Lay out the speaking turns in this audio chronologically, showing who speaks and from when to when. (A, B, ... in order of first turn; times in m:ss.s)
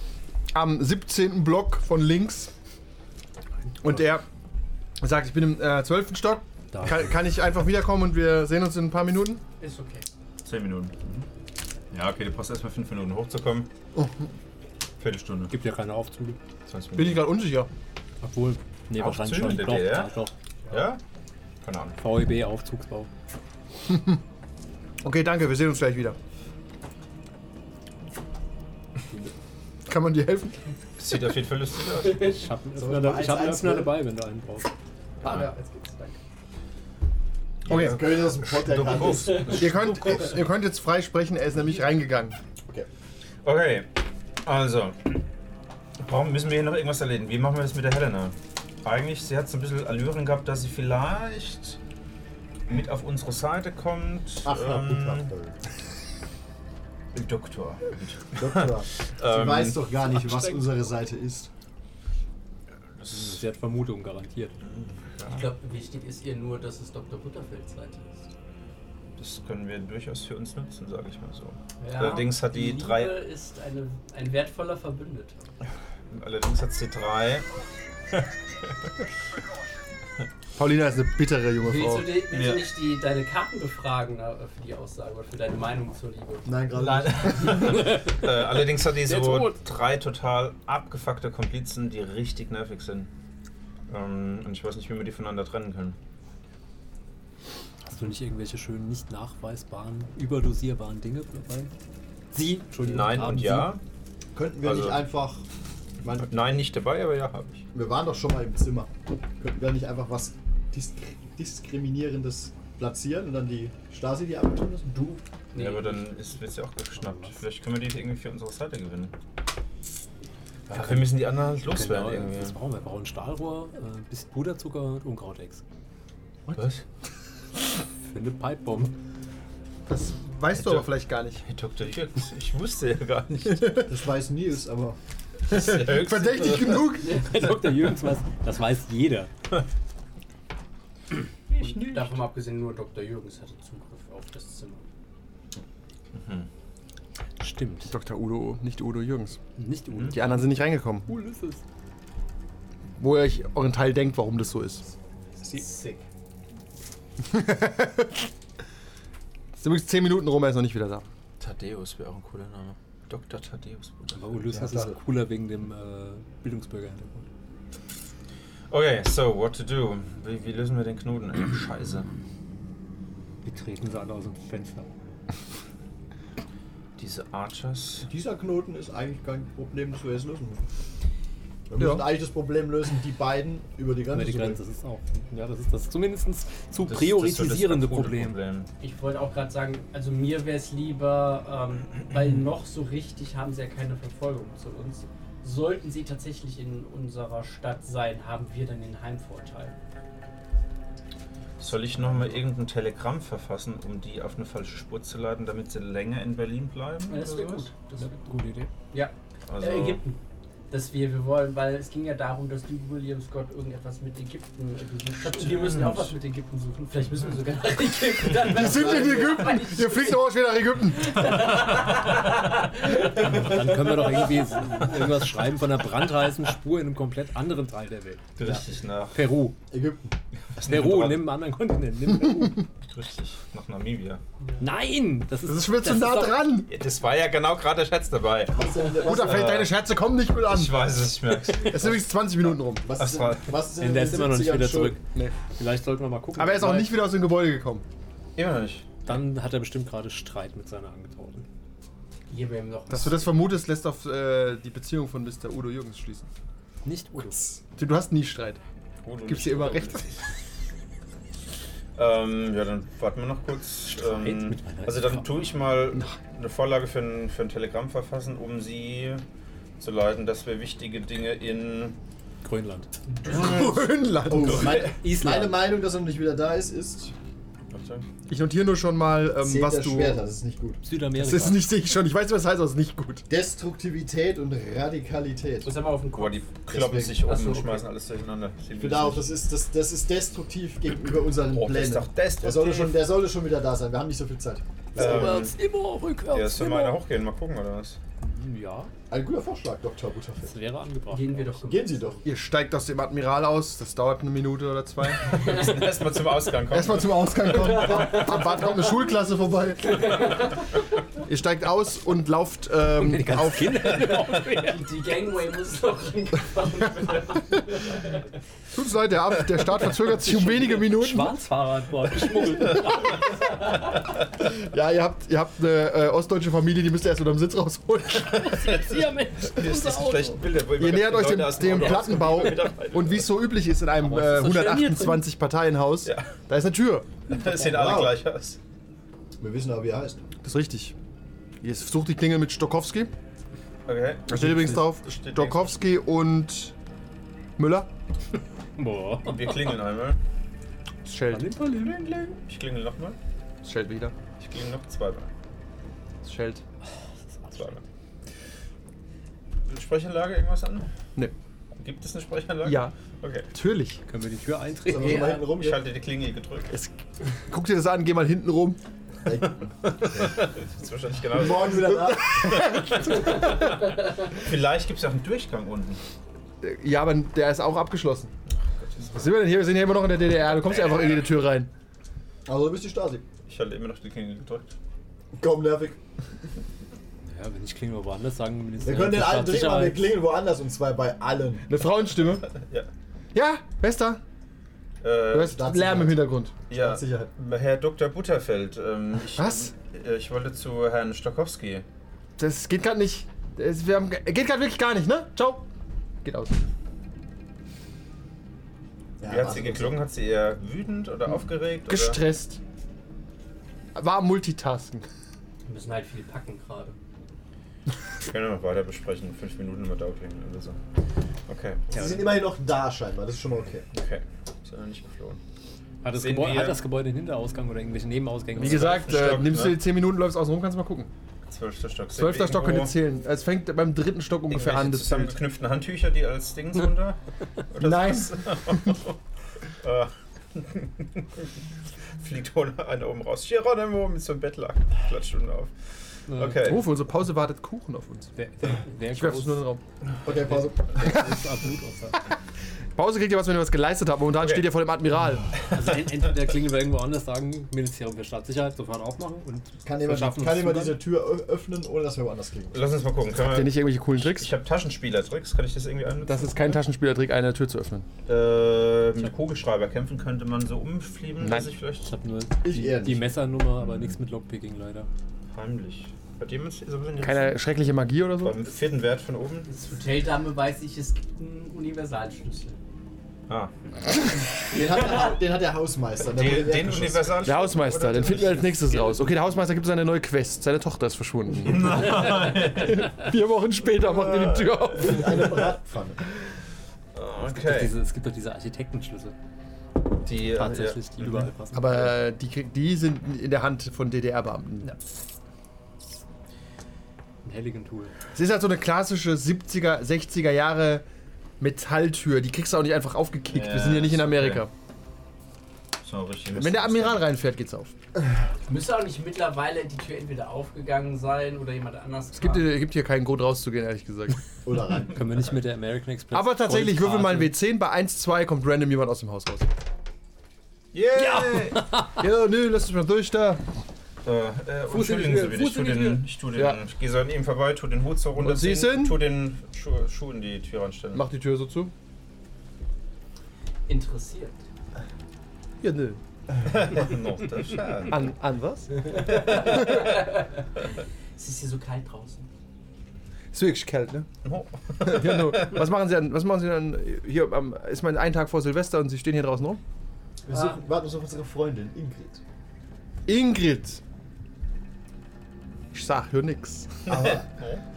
0:00.5-0:02.5 A
0:03.8-0:04.2 A
0:05.0-0:09.4 A
0:06.7-0:07.2 B
0:09.6-0:10.1 C
0:10.4-0:11.3 D
0:11.9-0:13.7 D
0:15.0-0:15.5 D
0:15.5-0:16.4 B
0:16.7-0:17.3 D
0:17.0-0:17.7 A
0:18.2-0:20.3 B
0:18.9-0:20.1 D
0:20.7-0:21.0 D
0:21.6-0:22.0 D
0:22.0-0:23.1 B
0:23.9-0:24.2 A
0:25.0-0:26.2 A
0:29.9-0:30.6 A
0:31.0-0:32.5 D
0:32.0-0:34.7 B
0:32.8-0:34.0 E
0:35.2-0:36.2 C
0:35.2-0:35.5 D
0:37.6-0:40.2 D
0:37.7-0:38.1 A
0:37.7-0:39.8 E
0:39.4-0:42.4 A
0:43.4-0:43.9 D
0:44.4-0:45.2 D
0:46.0-0:51.8 D
0:52.7-0:55.3 D
0:54.4-0:55.6 E
0:57.1-0:59.8 D
0:58.4-1:01.5 E
0:59.9-1:00.8 B
1:03.0-1:03.4 D
1:03.1-1:04.6 B
1:04.8-1:05.5 D
1:05.3-1:08.3 C
1:09.2-1:13.2 D
1:11.8-1:15.5 C
1:16.1-1:17.5 D
1:20.6-1:22.2 A
1:21.6-1:26.5 C
1:22.3-1:22.7 D
1:26.5-1:27.8 E
1:26.7-1:33.1 D
1:27.7-1:28.2 B
1:29.0-1:29.6 B
1:33.9-1:36.0 D
1:37.9-1:41.7 B
1:42.3-1:43.8 B
1:42.8-1:43.8 D
1:44.4-1:45.4 E
1:44.6-1:45.1 D
1:46.0-1:46.4 E
1:46.1-1:47.6 D
1:47.7-1:55.2 E
1:55.5-1:56.1 C
1:55.5-1:59.1 D
1:57.0-1:57.4 B
2:00.7-2:02.6 D
2:00.8-2:01.1 B
2:01.6-2:05.6 B
2:06.6-2:06.8 D
2:08.0-2:09.0 B
2:09.9-2:11.4 A
2:10.6-2:10.9 D
2:11.4-2:13.9 D
2:13.5-2:13.8 A
2:13.8-2:15.0 E
2:15.5-2:16.9 D
2:15.5-2:17.2 A
2:17.0-2:19.3 B
2:21.5-2:22.2 D
2:21.6-2:24.9 C
2:26.1-2:26.5 D
2:27.4-2:28.0 B
2:27.9-2:29.4 A
2:29.6-2:31.6 B
2:29.9-2:30.2 D
2:30.1-2:31.1 A
2:33.0-2:34.8 A
2:35.4-2:36.0 C
2:37.3-2:38.3 A
2:39.6-2:41.1 A
2:41.4-2:44.4 D
2:44.2-2:47.3 B
2:44.5-2:45.0 E
2:48.7-2:52.1 D
2:53.4-2:54.9 B
2:57.0-2:58.1 D
2:58.0-3:00.6 E
3:01.7-3:04.6 E
3:01.8-3:02.1 A
3:04.1-3:08.4 B
3:06.8-3:08.7 D
3:08.8-3:19.8 C
3:21.6-3:27.7 D
3:27.1-3:28.2 C
3:28.0-3:28.7 B
3:28.9-3:30.2 C
3:29.5-3:30.0 D
3:30.7-3:40.2 C
3:35.2-3:36.2 D
3:38.3-3:41.4 A
3:41.0-3:43.4 C
3:42.9-3:49.6 B
3:48.4-3:49.2 D
3:49.7-3:50.2 E
3:50.5-3:51.4 D
3:50.6-3:52.6 B
3:52.9-3:54.2 D
3:54.6-3:56.5 B
3:55.5-3:56.7 A
3:56.7-3:59.8 D
3:58.5-3:59.6 E
3:59.0-4:01.0 A
4:00.4-4:02.0 D
4:01.5-4:02.9 A
4:02.8-4:05.0 E
4:03.0-4:03.7 D
4:03.8-4:07.1 B
4:05.1-4:05.4 A
4:06.4-4:07.8 A
4:08.4-4:09.0 D
4:09.1-4:11.5 B
4:12.3-4:13.4 C
4:12.9-4:16.3 A
4:16.8-4:17.6 B
4:17.7-4:18.6 A
4:19.0-4:20.2 D
4:19.3-4:20.0 A
4:22.0-4:29.2 D
4:23.9-4:25.3 B
4:29.8-4:32.0 D
4:32.4-4:32.9 B
4:33.2-4:33.8 D
4:33.3-4:34.9 A
4:34.3-4:37.1 E
4:34.5-4:34.9 D
4:34.5-4:35.6 B
4:37.7-4:38.1 D
4:38.3-4:40.2 A
4:39.4-4:40.8 E
4:40.8-4:41.7 B
4:41.2-4:43.2 A
4:43.3-4:45.7 E
4:45.6-4:46.5 C
4:46.2-4:49.3 D
4:46.7-4:47.2 E
4:47.2-4:47.9 C
4:48.8-4:55.4 E
4:51.5-4:53.1 D
4:55.0-4:55.6 D
4:55.0-4:57.0 B
4:56.3-4:58.0 D
4:58.2-4:58.9 B
4:59.1-5:00.5 E
5:00.4-5:01.7 B
5:01.1-5:02.2 C
5:01.6-5:02.2 E
5:02.2-5:05.8 A
5:05.2-5:08.4 D
5:06.7-5:10.5 A
5:09.9-5:10.5 C
5:11.2-5:14.1 A
5:12.8-5:14.9 B
5:14.6-5:17.9 C
5:18.7-5:21.4 A
5:20.0-5:23.8 B
5:24.4-5:28.6 A
5:28.1-5:33.3 D
5:28.2-5:30.5 B
5:30.8-5:37.2 A
5:31.6-5:32.8 B
5:33.9-5:35.3 B
5:36.1-5:36.4 D
5:37.3-5:38.6 D
5:37.4-5:38.2 E
5:39.4-5:40.2 E
5:40.4-5:41.0 A
5:41.6-5:43.1 A
5:43.9-5:45.8 D
5:44.3-5:46.7 A
5:47.6-5:47.9 A
5:48.8-5:49.7 B
5:49.2-5:50.2 D
5:51.0-5:51.9 A
5:51.3-5:52.1 B
5:51.8-5:53.2 D
5:53.6-5:54.2 A
5:54.4-5:55.3 D
5:56.2-5:56.6 A
5:57.3-5:57.8 B
5:57.5-5:57.8 D
5:59.7-6:00.9 D
6:01.8-6:03.5 D
6:02.6-6:02.9 A
6:03.5-6:04.0 A
6:04.1-6:05.4 B
6:04.9-6:05.8 E
6:05.0-6:05.6 C
6:05.4-6:06.7 D
6:06.7-6:07.0 A
6:07.5-6:08.8 A
6:09.3-6:10.3 E
6:10.0-6:16.0 D
6:11.3-6:12.4 E
6:11.9-6:13.4 A
6:16.6-6:18.3 A
6:18.7-6:19.2 D
6:19.1-6:21.7 A
6:20.4-6:21.3 D
6:22.5-6:23.2 E
6:23.5-6:24.7 D
6:25.4-6:26.0 E
6:27.3-6:30.2 B
6:28.8-6:31.7 E
6:31.7-6:32.5 A
6:32.5-6:32.9 D
6:33.3-6:34.2 A
6:35.0-6:35.6 D
6:35.3-6:36.6 A
6:35.4-6:37.3 E
6:36.7-6:41.8 D
6:39.4-6:39.7 A
6:42.4-6:45.7 A
6:46.2-6:46.6 A
6:49.2-6:50.0 E
6:49.2-6:52.2 D
6:51.9-6:52.6 A
6:54.0-6:55.0 A
6:55.7-6:57.0 C
6:58.2-7:00.8 D
7:01.5-7:01.9 D
7:01.9-7:03.9 E
7:02.0-7:02.3 B
7:03.9-7:05.4 D
7:06.0-7:09.6 B
7:06.1-7:06.8 D
7:08.6-7:11.1 A
7:08.6-7:09.8 D
7:11.5-7:13.0 D
7:12.1-7:15.4 A
7:14.5-7:17.2 D
7:17.7-7:19.2 D
7:17.8-7:19.0 A
7:19.8-7:21.5 D
7:22.2-7:25.7 D
7:26.3-7:26.9 D
7:26.3-7:26.8 B
7:26.6-7:28.3 A
7:28.4-7:29.7 B
7:29.1-7:29.8 A
7:30.2-7:31.4 E
7:30.3-7:32.2 B
7:33.0-7:35.6 A
7:34.4-7:34.7 D
7:35.7-7:36.3 D
7:35.7-7:41.0 B
7:39.8-7:42.8 E
7:42.7-7:46.8 D
7:43.4-7:44.5 A
7:46.2-7:48.1 A
7:48.3-7:52.1 D
7:51.4-7:51.7 A
7:52.0-7:55.1 B
7:52.6-7:53.3 E
7:53.8-7:54.1 D
7:55.5-7:57.6 D
7:57.2-7:58.7 A
7:58.4-7:59.7 D
7:59.7-8:02.8 C
8:04.6-8:07.4 E
8:06.3-8:09.2 D
8:07.4-8:15.6 A
8:11.6-8:13.2 D
8:14.0-8:15.6 D
8:15.0-8:16.2 E
8:17.2-8:18.0 D
8:17.5-8:19.4 B
8:20.2-8:21.5 D
8:20.4-8:22.2 B
8:21.7-8:25.0 A
8:27.4-8:28.1 B
8:28.4-8:31.0 A
8:31.6-8:34.7 A
8:33.5-8:34.6 D
8:36.0-8:37.3 D
8:36.5-8:37.9 A
8:38.7-8:42.7 C
8:42.4-8:44.4 A
8:44.6-8:45.5 E
8:45.0-8:47.6 B
8:46.3-8:49.7 A
8:50.9-8:51.9 D
8:51.2-8:52.2 B
8:51.8-8:53.6 A
8:54.2-9:01.2 D
8:54.9-8:56.3 B
8:56.5-8:56.8 A
8:58.4-8:59.2 A
9:01.1-9:01.9 A
9:03.9-9:04.6 C
9:05.8-9:06.2 A
9:06.6-9:08.2 D
9:08.1-9:10.2 A
9:09.2-9:10.1 D
9:09.2-9:10.6 C
9:11.4-9:12.5 C
9:13.5-9:14.3 A
9:14.4-9:15.8 D
9:15.0-9:19.8 A
9:20.5-9:22.4 E
9:20.5-9:20.8 C
9:23.3-9:24.0 A
9:25.9-9:27.1 A
9:27.1-9:27.5 E
9:27.1-9:27.8 D